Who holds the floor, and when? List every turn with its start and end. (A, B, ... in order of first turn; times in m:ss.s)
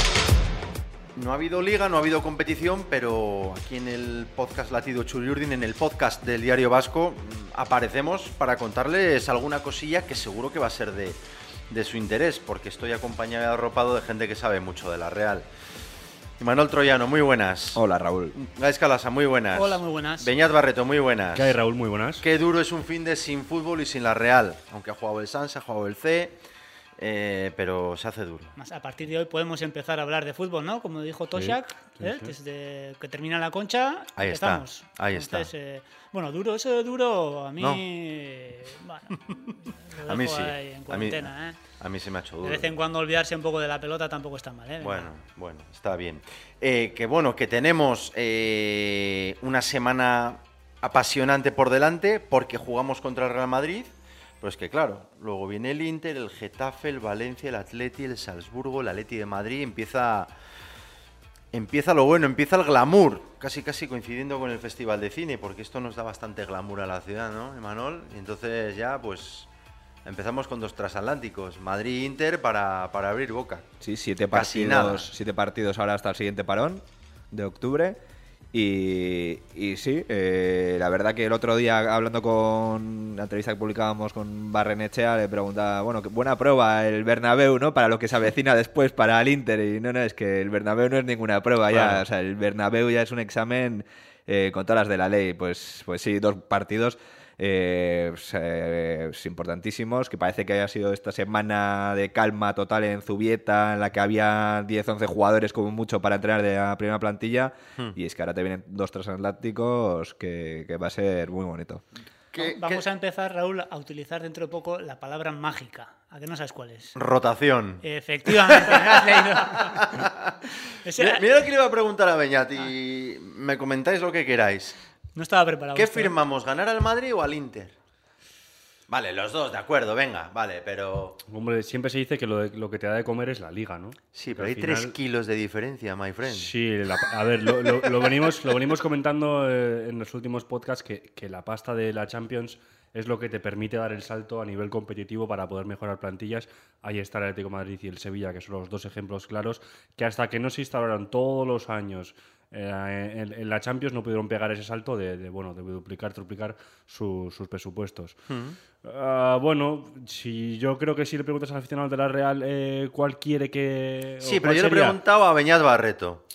0:01.2-0:15.5 A
0:16.4-0:17.8 A
0:17.7-0:18.4 B
0:18.3-0:21.6 A
0:19.5-0:20.3 C
0:21.3-0:22.2 D
0:22.2-0:26.4 A
0:27.0-0:28.5 A
0:28.6-0:41.6 C
0:31.4-0:32.3 D
0:34.2-0:35.5 A
0:40.0-0:42.7 A
0:42.4-0:45.1 C
0:44.8-1:00.3 A
1:01.5-1:09.5 A
1:10.0-1:13.7 A
1:13.8-1:18.0 B
1:14.3-1:15.1 A
1:18.5-1:51.8 B
1:31.7-1:32.0 A
1:52.3-1:52.8 A
1:52.4-1:56.9 C
1:56.9-2:04.8 A
1:57.8-2:00.0 C
2:00.7-2:01.2 C
2:05.1-2:06.2 C
2:05.7-2:07.7 A
2:08.9-2:11.2 A
2:11.3-2:15.0 D
2:14.1-2:16.5 A
2:16.2-2:38.2 D
2:17.6-2:18.0 A
2:38.3-2:38.6 A
2:38.8-2:45.0 D
2:44.2-2:46.2 A